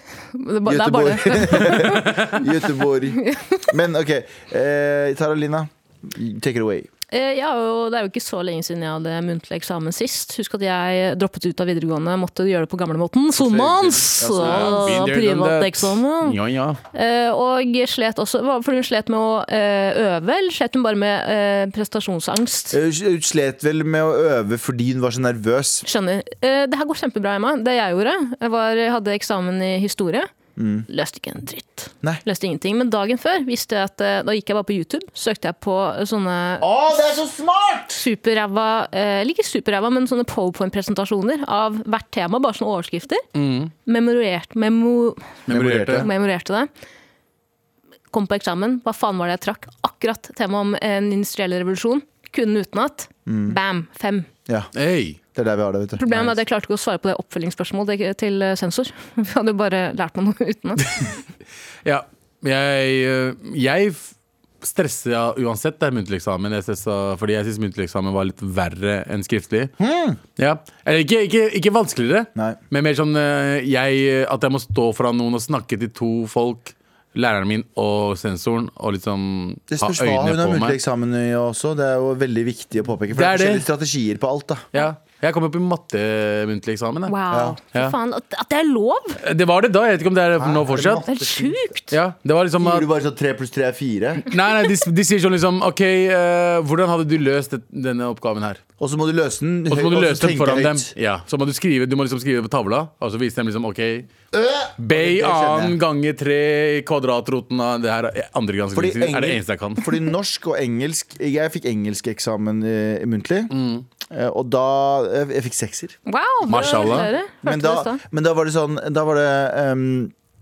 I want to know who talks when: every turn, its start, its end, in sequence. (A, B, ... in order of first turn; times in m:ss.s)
0:00.3-0:02.2 A
0:00.6-0:06.9 B
0:01.8-0:02.4 C
0:03.2-0:03.6 A
0:07.1-0:16.4 A
0:13.5-0:16.8 C
0:13.6-0:15.0 B
0:16.9-0:22.8 A
0:22.7-0:25.8 B
0:25.8-0:30.3 A
0:30.6-0:30.8 B
0:30.9-0:36.7 A
0:36.6-0:38.0 B
0:37.9-0:43.2 A
0:43.3-0:43.7 C
0:43.8-0:45.4 A
0:45.5-0:46.1 C
0:45.5-0:46.1 B
0:45.9-0:46.7 A
0:48.1-0:54.3 A
0:53.2-0:53.6 B
0:54.7-0:55.2 C
0:55.3-0:56.4 B
0:56.0-1:01.2 A
1:01.8-1:09.7 C
1:09.8-1:10.2 B
1:10.4-1:20.8 C
1:19.7-1:24.7 B
1:23.1-1:23.7 C
1:24.7-1:27.2 C
1:27.1-1:29.2 A
1:27.3-1:27.6 B
1:29.2-1:31.0 C
1:30.4-1:31.7 B
1:31.0-1:31.9 A
1:31.9-1:32.9 C
1:32.6-1:34.3 B
1:34.3-1:38.6 C
1:38.8-1:40.9 B
1:39.7-1:44.1 C
1:44.3-1:45.8 B
1:44.8-1:49.9 C
1:48.7-1:53.5 B
1:53.5-1:53.8 C
1:54.1-1:56.0 B
1:56.0-1:58.0 A
1:56.5-1:57.1 C
1:56.6-2:00.1 B